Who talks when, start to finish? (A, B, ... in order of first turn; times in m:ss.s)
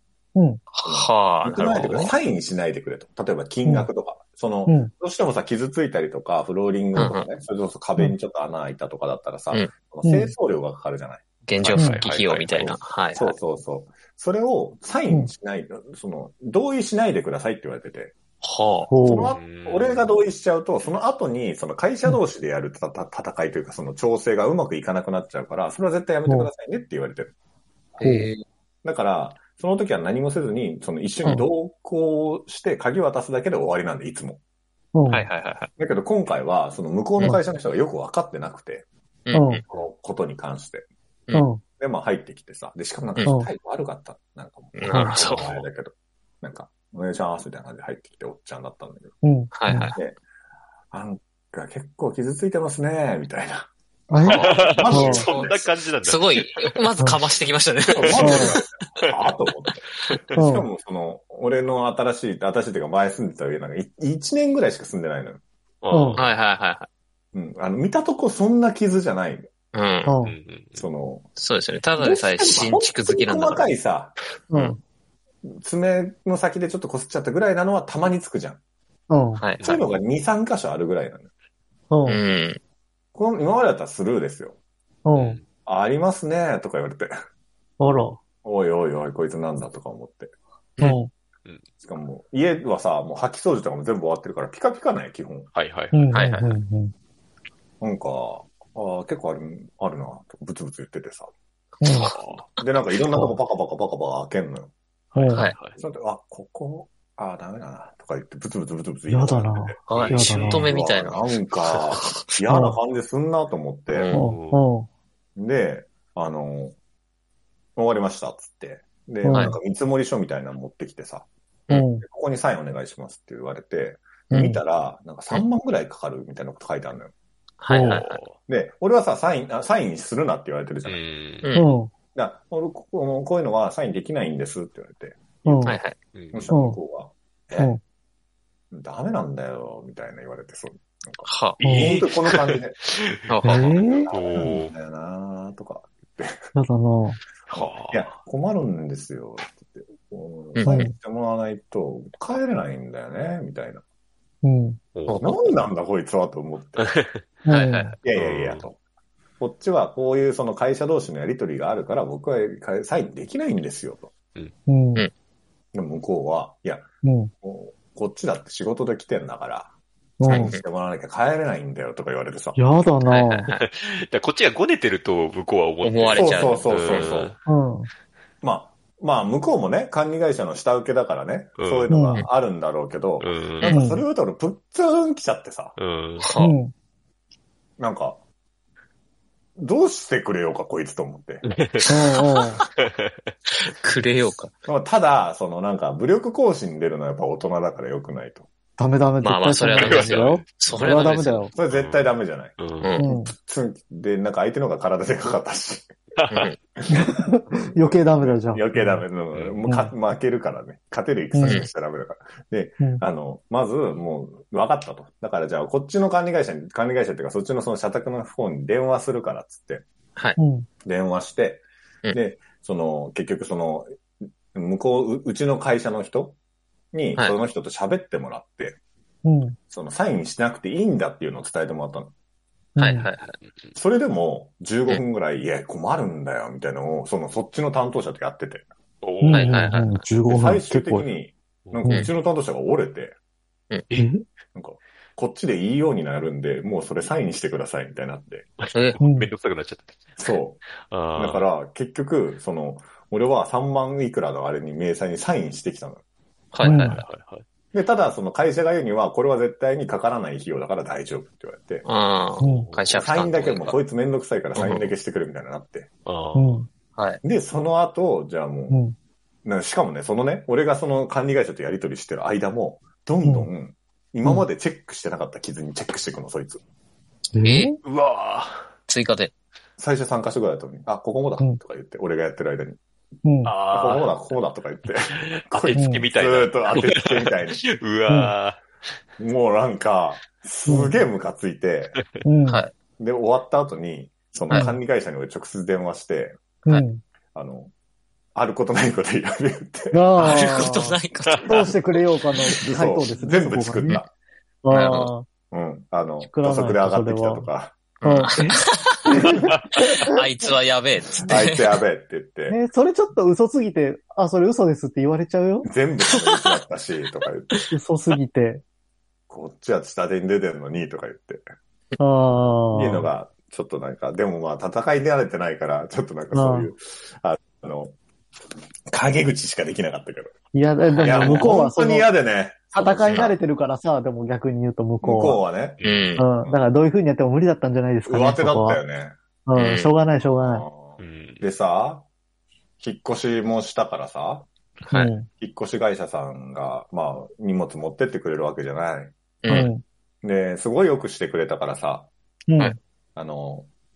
0:00.3-0:00.6 A
0:00.7-0:02.1 B
0:00.8-0:11.2 C
0:07.0-0:07.3 B
0:10.0-0:10.3 A
0:11.5-0:13.4 B
0:11.6-0:12.7 D
0:12.5-0:18.1 C
0:18.4-0:18.9 B
0:18.9-0:19.3 A
0:19.0-0:27.3 C
0:19.3-0:20.1 D
0:28.0-0:28.4 B
0:28.0-0:28.3 A
0:28.8-0:34.4 C
0:34.9-0:35.2 A
0:35.1-0:35.7 B
0:35.8-0:38.8 C
0:39.3-0:39.6 B
0:39.3-0:39.6 A
0:39.7-0:40.9 C
0:41.3-0:41.6 A
0:41.8-0:49.1 C
0:44.7-0:45.6 B
0:49.2-0:49.9 A
0:49.5-0:50.0 B
0:50.9-0:55.6 C
0:54.1-0:55.2 A
0:54.2-0:56.8 D
0:55.0-0:58.6 B
0:57.9-1:05.4 C
0:58.0-0:59.1 D
0:58.2-0:58.6 A
1:00.1-1:00.3 D
1:00.4-1:00.7 A
1:05.8-1:06.3 D
1:05.9-1:06.2 A
1:06.2-1:06.9 B
1:07.3-1:09.5 C
1:09.7-1:10.2 B
1:10.0-1:10.4 A
1:10.2-1:10.8 D
1:10.8-1:11.3 C
1:11.4-1:13.7 B
1:12.0-1:14.2 C
1:14.5-1:14.8 A
1:15.4-1:18.6 C
1:19.1-1:19.4 A
1:19.4-1:19.7 B
1:19.6-1:21.3 C
1:21.9-1:22.2 A
1:22.0-1:22.6 B
1:23.1-1:24.6 C
1:25.0-1:25.4 A
1:25.1-1:25.4 B
1:25.6-1:27.1 C
1:27.8-1:28.2 A
1:28.4-1:30.3 C
1:30.8-1:31.1 A
1:31.8-1:35.5 C
1:35.5-1:36.2 D
1:35.9-1:36.9 A
1:36.1-1:36.6 B
1:37.8-1:41.3 C
1:41.8-1:42.1 B
1:41.8-1:42.1 A
1:42.2-1:44.7 C
1:45.1-1:45.5 A
1:45.2-1:45.8 D
1:45.8-1:54.1 C
1:49.1-1:50.7 A
1:49.9-1:52.2 B
1:49.9-1:50.4 D
1:52.5-1:52.8 A
1:53.9-1:54.3 B
1:54.1-1:54.6 D
1:54.1-1:54.9 A
1:55.4-1:56.7 C
1:57.8-2:01.3 C
1:59.2-1:59.5 A
1:59.3-1:59.6 B
2:01.7-2:02.0 A
2:02.0-2:07.1 C
2:04.3-2:04.6 B
2:07.6-2:08.2 B
2:07.7-2:08.0 A
2:07.8-2:08.3 D
2:08.4-2:11.0 C
2:10.8-2:11.5 D
2:11.4-2:11.7 B
2:11.5-2:11.9 A
2:12.1-2:15.7 C
2:15.4-2:15.8 A
2:15.6-2:16.0 B
2:16.1-2:16.5 D
2:16.3-2:17.8 C
2:16.5-2:16.8 A
2:18.7-2:22.8 C
2:21.2-2:21.6 B
2:21.6-2:22.0 A
2:21.7-2:24.7 D
2:23.3-2:23.8 B
2:23.4-2:24.5 A
2:23.8-2:26.5 C
2:26.5-2:27.2 A
2:27.5-2:28.1 D
2:27.5-2:33.8 C
2:30.5-2:30.8 B
2:30.6-2:30.9 A
2:34.4-2:34.8 A
2:34.9-2:35.2 D
2:35.1-2:35.5 B
2:35.2-2:36.9 C
2:36.8-2:37.2 D
2:37.4-2:37.9 A
2:37.5-2:37.9 B
2:38.0-2:38.8 C
2:38.1-2:38.6 D
2:39.4-2:44.1 C
2:44.7-2:45.0 A
2:45.7-2:46.9 C
2:47.0-2:47.3 A
2:47.4-2:49.7 C
2:50.2-2:50.5 A
2:50.2-2:52.6 C
2:50.2-2:50.6 B
2:52.6-2:53.5 A
2:53.0-2:53.6 B
2:53.6-2:57.4 D
2:55.8-2:57.1 B
2:56.1-2:57.4 C
2:57.5-2:57.9 A
2:58.4-3:05.8 C
3:01.6-3:01.9 D
3:01.9-3:02.3 A
3:03.2-3:03.8 D
3:03.7-3:04.0 A
3:05.8-3:06.3 D
3:06.2-3:06.6 B
3:06.4-3:06.7 A
3:07.8-3:08.2 C
3:09.6-3:11.4 C
3:11.4-3:11.9 D
3:11.8-3:12.7 B
3:11.9-3:12.6 A
3:12.8-3:13.3 D
3:13.6-3:14.5 B
3:14.6-3:18.5 C
3:18.8-3:21.5 A
3:19.2-3:21.5 B
3:19.7-3:21.2 D
3:21.5-3:22.6 C
3:21.7-3:22.0 D
3:22.6-3:22.9 D
3:22.8-3:23.1 B
3:23.0-3:23.3 A
3:23.2-3:25.9 C
3:26.2-3:26.5 D
3:26.3-3:26.6 B
3:26.8-3:27.2 C
3:26.9-3:29.0 A
3:27.8-3:39.8 C
3:29.3-3:29.6 D
3:29.7-3:29.9 A
3:31.3-3:31.6 A
3:40.4-3:40.7 A
3:40.8-3:43.9 C
3:44.5-3:46.4 C
3:46.9-3:48.8 C
3:49.2-3:49.6 A
3:49.7-3:52.1 C
3:52.8-3:53.1 A
3:52.8-3:53.4 B
3:53.7-3:58.7 C
3:59.0-3:59.8 D
3:59.2-4:01.1 A
3:59.3-3:59.9 B
4:00.2-4:03.1 C
4:03.9-4:04.2 A
4:04.5-4:08.4 C
4:08.6-4:10.2 D
4:08.7-4:09.0 B
4:09.0-4:09.3 A
4:10.2-4:10.6 C
4:10.8-4:11.4 D
4:11.2-4:16.0 C
4:16.5-4:17.0 B
4:16.6-4:17.4 D
4:16.6-4:17.0 A
4:17.7-4:21.8 C
4:21.8-4:23.8 B
4:22.4-4:22.9 D
4:22.4-4:22.7 A
4:22.9-4:25.9 C
4:24.6-4:24.9 B
4:26.0-4:26.6 D
4:26.3-4:26.7 A
4:27.0-4:27.2 B
4:27.2-4:28.8 C
4:28.7-4:28.9 A
4:29.4-4:36.6 C
4:33.2-4:33.5 A
4:37.3-4:37.8 A
4:37.4-4:37.8 B
4:37.8-4:38.7 D
4:38.9-4:39.3 B
4:39.8-4:42.8 C
4:43.2-4:43.5 A
4:43.4-4:44.1 D
4:43.7-4:47.6 C
4:45.1-4:48.6 D
4:45.7-4:46.0 A
4:48.1-4:48.3 A
4:49.2-4:52.0 C
4:50.6-4:51.0 A
4:52.0-4:52.2 D
4:52.2-4:52.6 A
4:52.5-4:52.7 B
4:53.0-4:56.4 C
4:54.5-4:54.8 A
4:56.6-4:57.0 A
4:57.3-4:57.7 C
4:58.3-5:00.3 C
4:59.9-5:04.0 A
5:00.2-5:01.7 B
5:01.3-5:01.7 D
5:02.5-5:04.1 C
5:04.6-5:05.3 A
5:04.7-5:05.1 B
5:05.5-5:07.8 C
5:06.2-5:07.5 A
5:08.0-5:09.3 B
5:08.0-5:10.2 A
5:09.5-5:09.8 D
5:10.1-5:11.7 B
5:11.2-5:12.6 C
5:12.5-5:15.7 A
5:15.6-5:17.5 C
5:16.1-5:16.4 B
5:17.7-5:18.6 A
5:19.3-5:21.4 C
5:22.0-5:23.1 A
5:22.7-5:28.0 C
5:26.3-5:26.7 A
5:28.9-5:30.3 C
5:30.5-5:32.1 A
5:30.8-5:31.5 B
5:31.0-5:33.4 C
5:32.7-5:35.4 A
5:35.0-5:35.8 C
5:35.8-5:36.2 D
5:35.8-5:36.3 B
5:36.2-5:38.8 A
5:38.0-5:39.1 C
5:39.4-5:40.6 A
5:39.5-5:39.9 B
5:40.2-5:42.0 C
5:41.0-5:41.4 D
5:42.8-5:44.5 C
5:44.8-5:45.1 B
5:44.9-5:45.3 A
5:45.4-5:49.7 C
5:49.4-5:49.7 B
5:49.5-5:49.8 A
5:50.2-5:52.1 C
5:52.5-5:52.8 A
5:53.2-5:53.7 C